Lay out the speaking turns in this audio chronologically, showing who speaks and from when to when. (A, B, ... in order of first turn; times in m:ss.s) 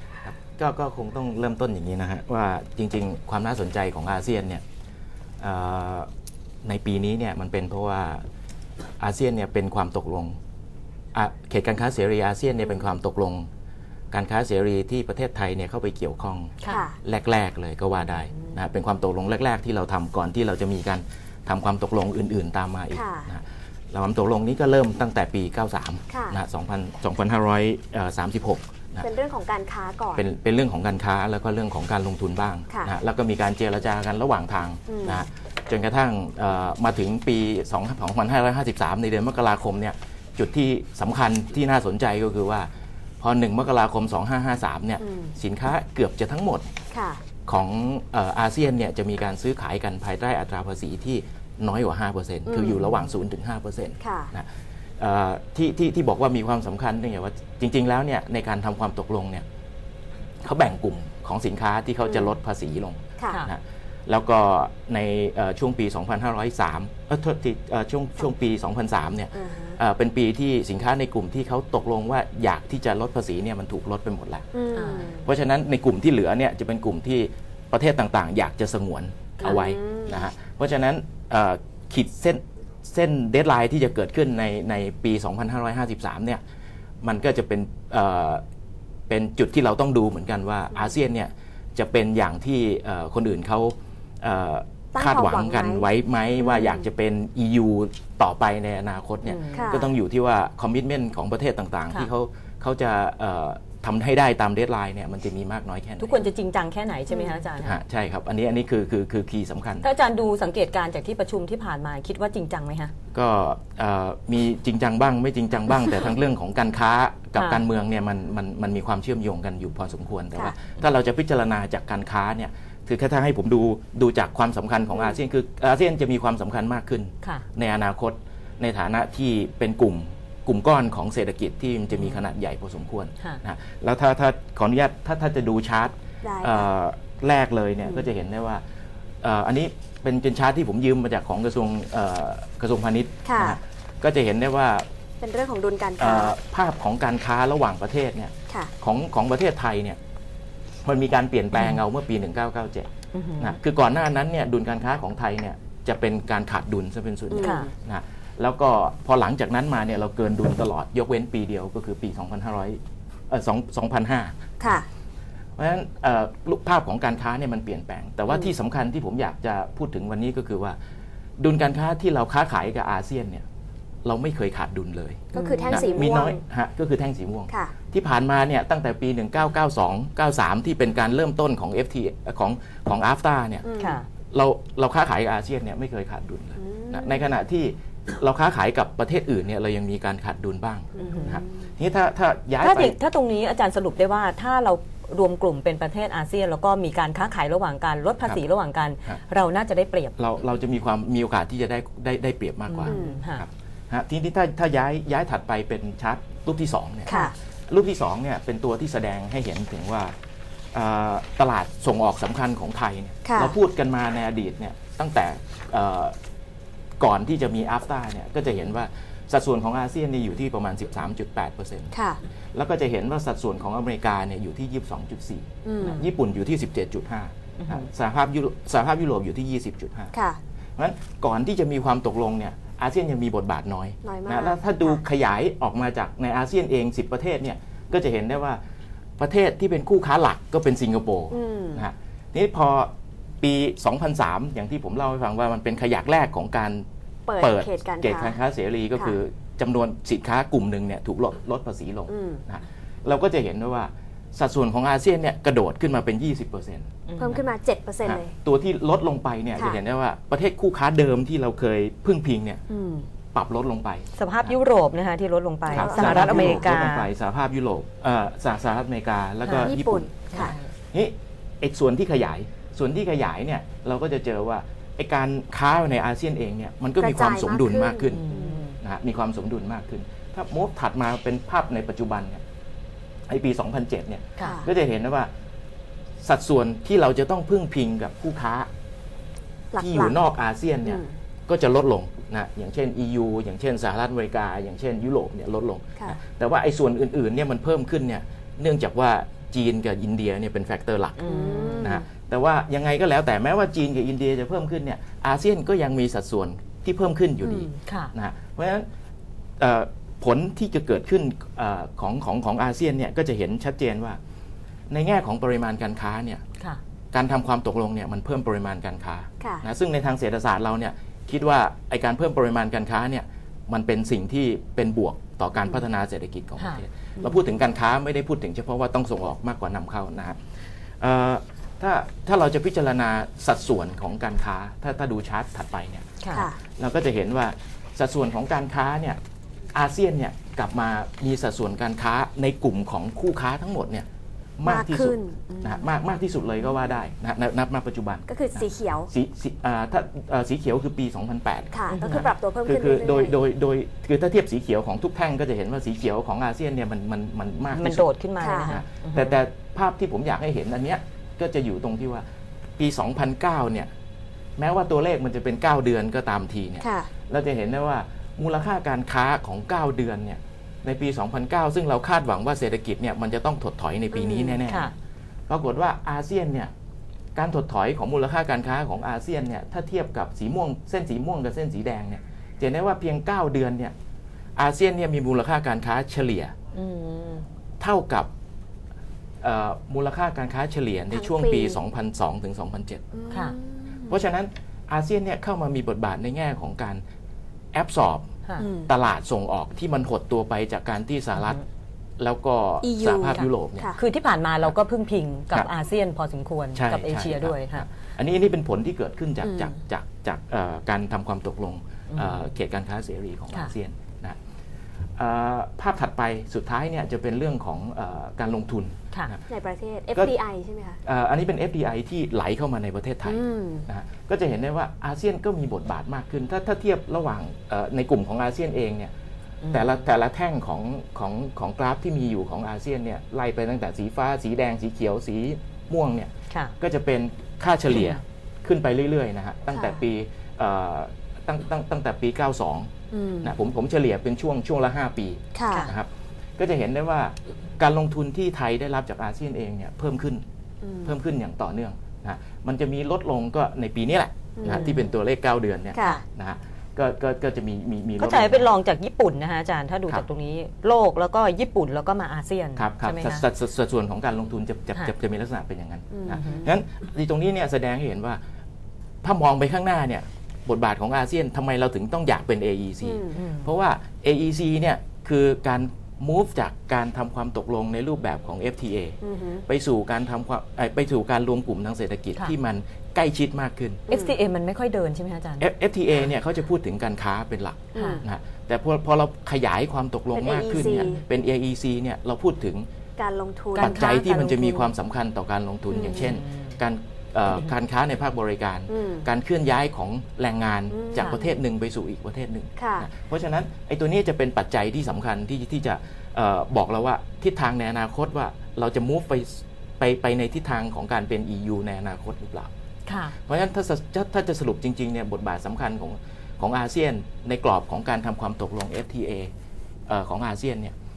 0:00.2-0:04.6 A
0:05.4-0:06.1 A
0:06.6-0:08.2 A
0:09.0-0:10.4 A
0:11.1-0:13.5 A
0:14.1-0:29.0 A
0:16.7-0:17.0 B
0:22.9-0:23.3 B
0:26.1-0:26.4 B
0:29.0-0:30.2 B
0:30.1-0:42.7 A
0:34.9-0:35.2 B
0:43.2-0:46.7 A
0:45.0-0:45.3 B
0:46.9-0:47.2 B
0:47.4-0:59.4 A
0:52.5-0:52.8 B
0:54.0-0:54.3 B
1:00.4-1:14.4 A
1:03.2-1:03.4 B
1:09.3-1:09.8 B
1:14.5-1:15.2 B
1:14.7-1:15.2 C
1:15.1-1:26.4 A
1:19.4-1:20.2 B
1:27.0-1:28.4 A
1:29.1-1:46.3 A
1:34.9-1:35.9 B
1:36.4-1:36.8 B
1:39.2-1:39.8 C
1:39.5-1:39.9 B
1:46.0-1:47.8 C
1:47.6-1:49.8 A
1:49.8-1:52.9 C
1:53.1-2:18.6 A
1:57.4-1:57.6 C
2:11.9-2:12.2 C
2:16.2-2:16.7 B
2:19.2-2:24.9 A
2:23.2-2:23.6 B
2:25.2-2:26.3 B
2:26.0-2:30.0 A
2:30.8-2:44.8 A
2:33.1-2:33.6 C
2:37.3-2:37.7 B
2:37.4-2:37.7 C
2:44.6-2:44.8 B
2:45.6-2:50.8 A
2:51.4-2:53.4 A
2:54.0-3:03.7 A
2:55.3-2:56.4 B
2:55.3-2:55.9 C
3:03.6-3:04.0 B
3:03.8-3:04.0 C
3:04.3-3:13.0 A
3:06.6-3:07.2 B
3:10.9-3:11.4 B
3:11.0-3:11.4 C
3:12.6-3:20.1 C
3:20.2-3:30.1 A
3:22.7-3:23.4 C
3:22.9-3:23.2 B
3:27.1-3:27.3 B
3:30.7-3:36.2 A
3:33.2-3:33.6 B
3:37.0-3:41.9 A
3:41.9-3:42.2 B
3:42.5-3:50.1 A
3:45.6-3:46.1 B
3:47.6-3:47.8 C
3:50.1-3:50.4 B
3:50.8-3:58.6 A
3:54.0-3:55.0 B
3:59.2-4:06.8 A
4:01.3-4:01.8 B
4:07.3-4:08.4 B
4:07.4-4:16.9 A
4:12.1-4:12.4 B
4:17.1-4:17.4 C
4:17.2-4:18.3 B
4:18.0-4:22.6 A
4:22.7-4:23.1 B
4:23.3-4:24.5 A
4:24.2-4:27.1 C
4:25.7-4:26.7 B
4:25.7-4:38.2 A
4:29.4-4:29.7 C
4:29.5-4:30.5 B
4:30.3-4:30.7 C
4:37.0-4:38.6 B
4:38.1-4:38.8 C
4:38.8-4:42.4 A
4:43.3-4:45.3 A
4:44.4-4:44.7 B
4:46.2-4:48.7 A
4:49.7-4:50.2 B
4:49.8-5:08.9 A
4:50.8-4:51.1 B
5:01.2-5:02.0 C
5:01.3-5:02.0 B
5:07.4-5:07.7 B
5:07.8-5:08.1 C
5:09.6-5:14.2 A
5:14.9-5:16.4 A
5:17.1-5:30.4 A
5:31.0-5:36.1 A
5:36.2-5:36.5 C
5:36.3-5:36.6 B
5:36.7-5:39.2 A
5:39.7-5:44.0 A
5:44.6-5:58.0 A
5:44.6-5:45.8 B
5:48.3-5:49.1 B
5:51.7-5:53.4 B
5:51.9-5:52.2 C
5:57.7-5:59.4 C
5:58.4-5:58.7 B
5:58.7-6:02.2 A
6:02.8-6:03.9 A
6:04.6-6:14.9 A
6:06.8-6:07.1 B
6:14.1-6:14.6 B
6:15.5-6:16.7 A
6:17.3-6:23.9 A
6:24.6-6:26.5 A
6:26.7-6:27.5 C
6:27.8-6:28.3 A
6:29.4-6:33.0 A
6:31.1-6:31.8 B
6:33.1-6:34.1 B
6:34.1-6:37.0 A
6:37.7-6:38.3 A
6:38.6-6:38.9 B
6:38.9-6:41.6 A
6:41.3-6:41.6 C
6:42.2-6:43.9 A
6:42.8-6:44.0 B
6:43.3-6:47.8 C
6:46.7-6:54.4 A
6:49.4-6:49.8 B
6:52.1-6:52.4 C
6:55.2-6:59.4 A
6:59.5-7:01.0 B
7:01.0-7:09.1 A
7:03.2-7:03.9 B
7:09.7-7:30.4 A
7:17.9-7:18.2 C
7:19.7-7:20.0 B
7:23.1-7:23.5 B
7:25.5-7:25.9 B
7:30.8-7:31.1 B
7:31.0-7:38.7 A
7:34.6-7:34.9 B
7:34.6-7:35.1 C
7:35.9-7:36.2 B
7:38.2-7:43.4 C
7:42.7-7:48.4 A
7:46.1-7:46.7 B
7:46.4-7:46.6 C
7:49.2-8:04.0 A
7:53.0-7:53.4 B
7:53.3-7:53.7 C
7:59.2-7:59.6 B
8:04.1-8:04.4 B
8:04.1-8:05.6 C
8:05.6-8:12.9 A
8:07.9-8:08.2 B
8:07.9-8:08.2 C
8:10.3-8:11.2 B
8:13.2-8:14.0 B
8:13.7-8:14.9 C
8:13.8-8:32.7 A
8:15.9-8:16.2 B
8:16.1-8:16.7 C
8:18.9-8:19.2 B
8:20.9-8:21.6 B
8:22.8-8:23.1 B
8:33.1-8:33.3 C
8:33.4-8:39.5 A
8:40.1-8:40.9 A